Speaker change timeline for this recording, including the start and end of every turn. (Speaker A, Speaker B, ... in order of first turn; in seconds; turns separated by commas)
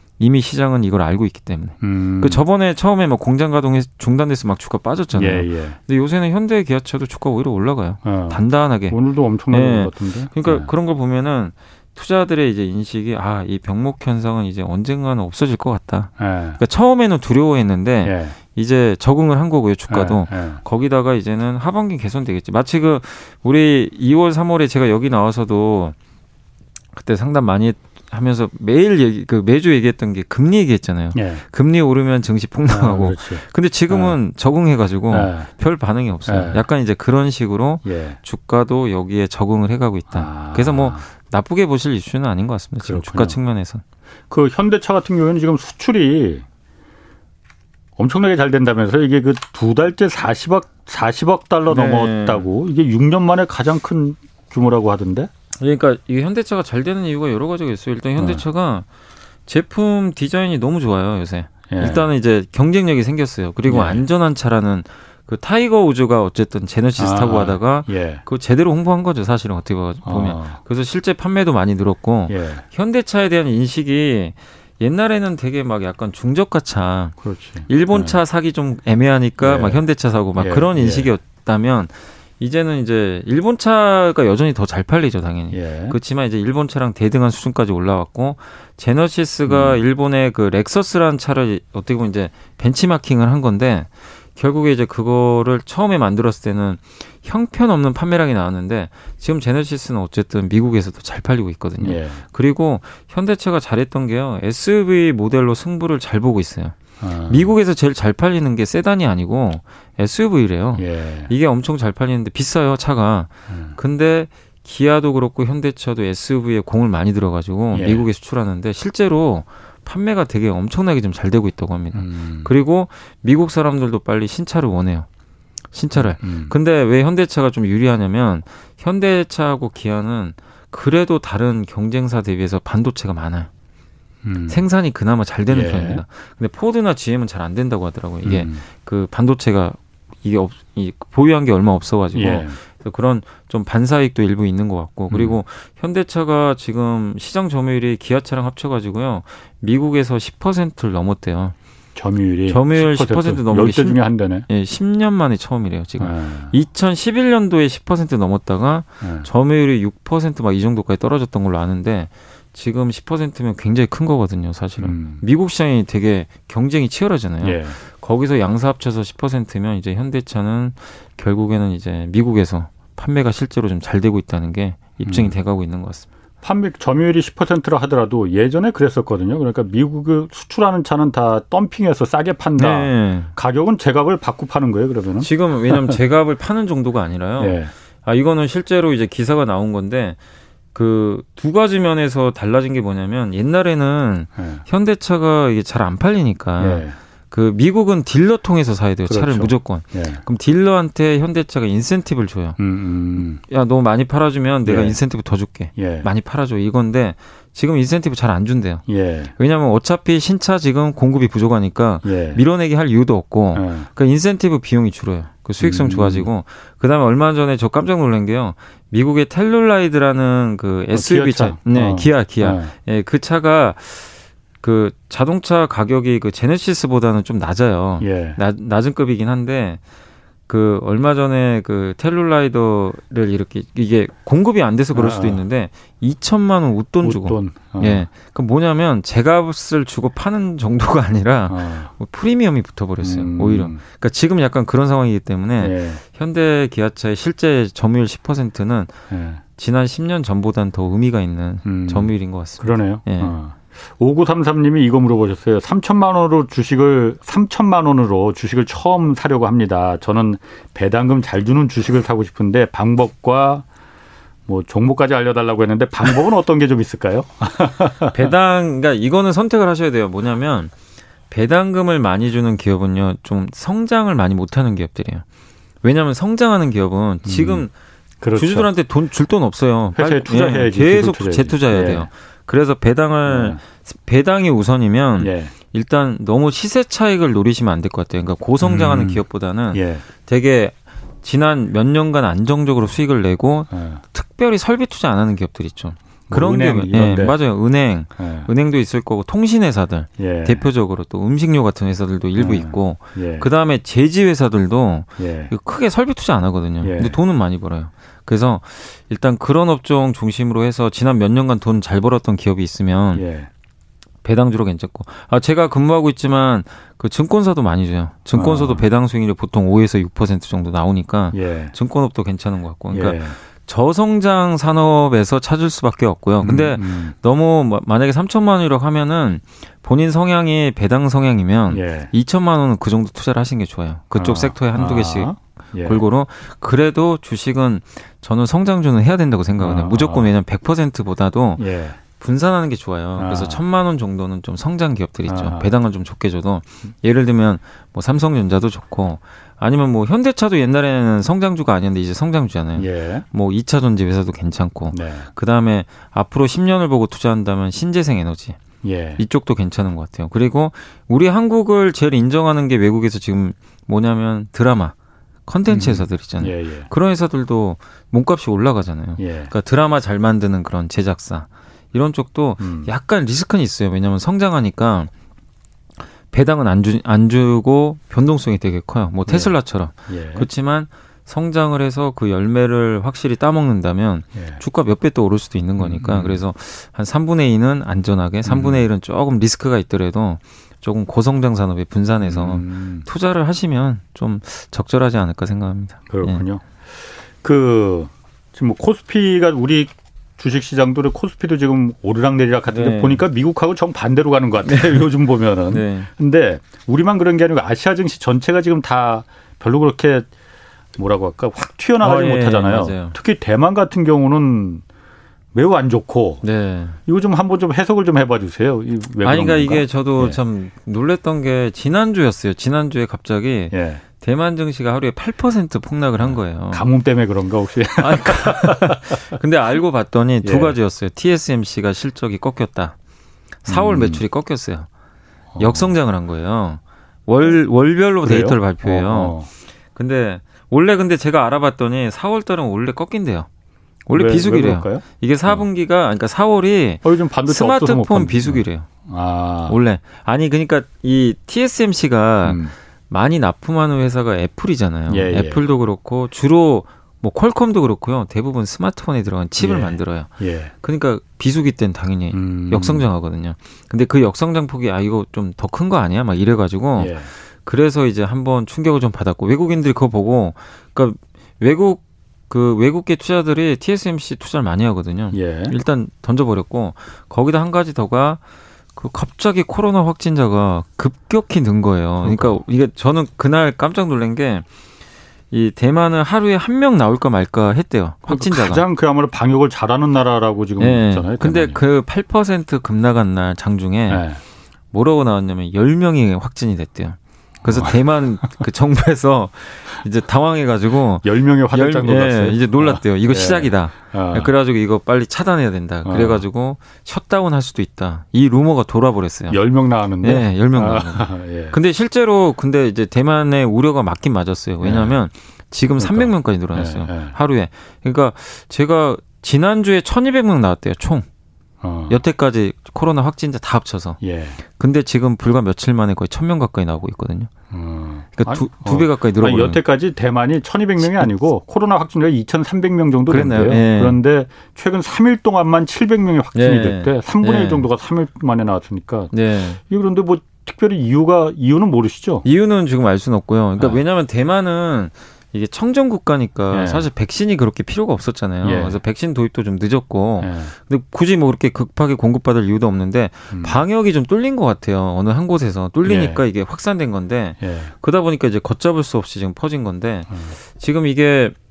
Speaker A: 0.2-8.9, Speaker B: 1.8-2.4, Speaker B: 5.1-5.8, Speaker B: 8.0-10.7, Speaker A: 9.5-25.9, Speaker B: 16.2-16.6, Speaker B: 18.0-18.4, Speaker B: 19.9-20.6, Speaker A: 26.9-43.8, Speaker B: 31.1-31.4, Speaker B: 32.7-34.2, Speaker B: 35.1-35.5, Speaker B: 36.2-36.6, Speaker B: 37.8-38.2, Speaker B: 40.1-41.0, Speaker B: 42.8-43.4, Speaker B: 44.3-46.4, Speaker B: 48.0-55.3, Speaker A: 51.7-52.4, Speaker A: 55.6-58.9, Speaker B: 58.2-58.4, Speaker A: 59.5-77.2, Speaker B: 61.7-62.0, Speaker B: 63.7-64.0, Speaker B: 67.0-68.2, Speaker B: 70.0-70.6, Speaker B: 72.3-72.6, Speaker B: 77.2-78.2, Speaker A: 77.7-125.1, Speaker B: 79.4-81.1, Speaker B: 85.5-86.0, Speaker B: 89.5-89.8, Speaker B: 101.8-102.2, Speaker B: 107.0-107.5, Speaker B: 110.8-111.3, Speaker B: 113.5-113.8, Speaker B: 117.7-118.0, Speaker B: 121.9-122.5, Speaker A: 125.7-133.5, Speaker B: 126.0-126.5, Speaker B: 134.2-134.6, Speaker A: 134.5-151.5, Speaker B: 135.5-136.0, Speaker B: 138.2-138.6, Speaker B: 142.1-142.6, Speaker B: 145.1-145.4, Speaker B: 151.9-154.4, Speaker A: 152.5-176.1, Speaker B: 156.0-156.5, Speaker B: 159.0-159.3, Speaker B: 164.8-165.2, Speaker B: 167.4-167.8, Speaker B: 175.0-175.3, Speaker B: 176.4-186.0, Speaker A: 182.6-183.3, Speaker A: 185.2-190.2, Speaker B: 187.4-187.7, Speaker A: 190.7-202.6, Speaker B: 194.4-194.6, Speaker B: 196.6-197.0, Speaker B: 199.1-200.2, Speaker B: 202.6-203.4, Speaker A: 203.2-208.8, Speaker B: 204.6-205.0, Speaker B: 205.8-206.1, Speaker B: 208.9-209.3, Speaker A: 209.3-229.8, Speaker B: 212.0-212.4, Speaker B: 213.5-213.9, Speaker B: 215.6-216.3, Speaker B: 220.9-222.7, Speaker B: 228.0-228.4, Speaker A: 230.5-249.0, Speaker B: 234.9-235.4, Speaker B: 237.0-238.1, Speaker B: 241.5-241.9, Speaker B: 243.0-243.8, Speaker B: 245.6-246.0, Speaker B: 249.1-249.4, Speaker A: 249.6-253.3, Speaker B: 251.7-263.6, Speaker B: 264.5-268.2, Speaker A: 268.1-270.7, Speaker A: 271.3-275.2, Speaker A: 275.8-277.7, Speaker B: 277.2-277.6, Speaker B: 278.2-278.7, Speaker A: 278.3-313.2, Speaker B: 279.9-282.1, Speaker B: 283.2-283.6, Speaker B: 285.2-285.5, Speaker B: 288.6-290.0, Speaker B: 293.7-294.0, Speaker B: 296.3-297.4, Speaker B: 298.2-298.5, Speaker B: 300.2-300.7, Speaker B: 302.4-303.5, Speaker B: 305.2-305.5, Speaker B: 306.8-307.2, Speaker B: 313.1-313.5, Speaker A: 314.2-335.3, Speaker B: 318.3-318.9, Speaker B: 321.3-321.7, Speaker B: 322.9-323.4, Speaker B: 326.4-327.1, Speaker B: 331.7-332.1, Speaker B: 334.1-336.0, Speaker A: 335.8-358.6, Speaker B: 339.6-340.3, Speaker B: 341.6-342.0, Speaker B: 343.2-343.6, Speaker B: 345.2-345.7, Speaker B: 352.8-353.2, Speaker B: 354.9-355.3, Speaker B: 358.8-359.2, Speaker A: 359.2-364.9, Speaker A: 365.5-375.1, Speaker B: 365.7-366.9, Speaker B: 369.2-369.5, Speaker B: 372.6-372.9, Speaker A: 376.3-396.4, Speaker B: 379.3-379.5, Speaker B: 380.1-380.5, Speaker B: 384.3-384.6, Speaker B: 385.8-386.4, Speaker B: 388.4-388.8, Speaker B: 392.2-393.1, Speaker B: 396.1-410.3, Speaker A: 402.7-403.2, Speaker A: 404.6-405.1, Speaker A: 405.7-406.1, Speaker B: 410.9-414.8, Speaker A: 412.0-413.1, Speaker B: 415.5-416.4, Speaker A: 416.4-417.0, Speaker B: 417.1-420.4, Speaker A: 419.2-426.8, Speaker B: 423.7-424.0, Speaker B: 426.2-429.2, Speaker A: 428.0-432.9, Speaker B: 430.4-430.8, Speaker A: 433.6-434.9, Speaker B: 433.7-434.2, Speaker B: 435.5-435.9, Speaker A: 435.6-439.3, Speaker B: 438.2-439.5, Speaker A: 439.9-443.5, Speaker A: 444.1-448.9, Speaker B: 444.1-445.6, Speaker B: 447.0-449.8, Speaker A: 449.7-460.3, Speaker B: 452.4-452.7, Speaker B: 455.1-455.6, Speaker B: 459.6-460.7, Speaker A: 460.8-478.4, Speaker B: 462.3-463.1, Speaker B: 467.0-467.3, Speaker B: 475.3-475.7, Speaker A: 478.9-484.6, Speaker B: 482.2-482.6, Speaker A: 485.5-488.8, Speaker B: 488.3-491.8, Speaker A: 490.8-494.2, Speaker B: 494.1-494.4, Speaker A: 494.9-509.6, Speaker B: 497.6-498.0, Speaker B: 501.2-504.5, Speaker B: 506.0-506.4, Speaker B: 509.5-511.8, Speaker A: 510.2-521.2, Speaker B: 514.8-515.1, Speaker B: 516.0-517.4, Speaker B: 521.8-522.2, Speaker A: 522.1-527.5, Speaker B: 524.2-524.6, Speaker B: 527.7-542.4, Speaker A: 528.4-529.8, Speaker A: 531.0-531.3, Speaker A: 533.3-534.2, Speaker A: 536.5-537.9, Speaker A: 539.3-539.8, Speaker A: 542.4-561.5, Speaker B: 546.7-547.1, Speaker B: 548.6-549.0, Speaker B: 550.4-550.7, Speaker B: 553.5-553.8, Speaker B: 556.0-556.4, Speaker B: 557.6-557.9, Speaker B: 560.3-560.5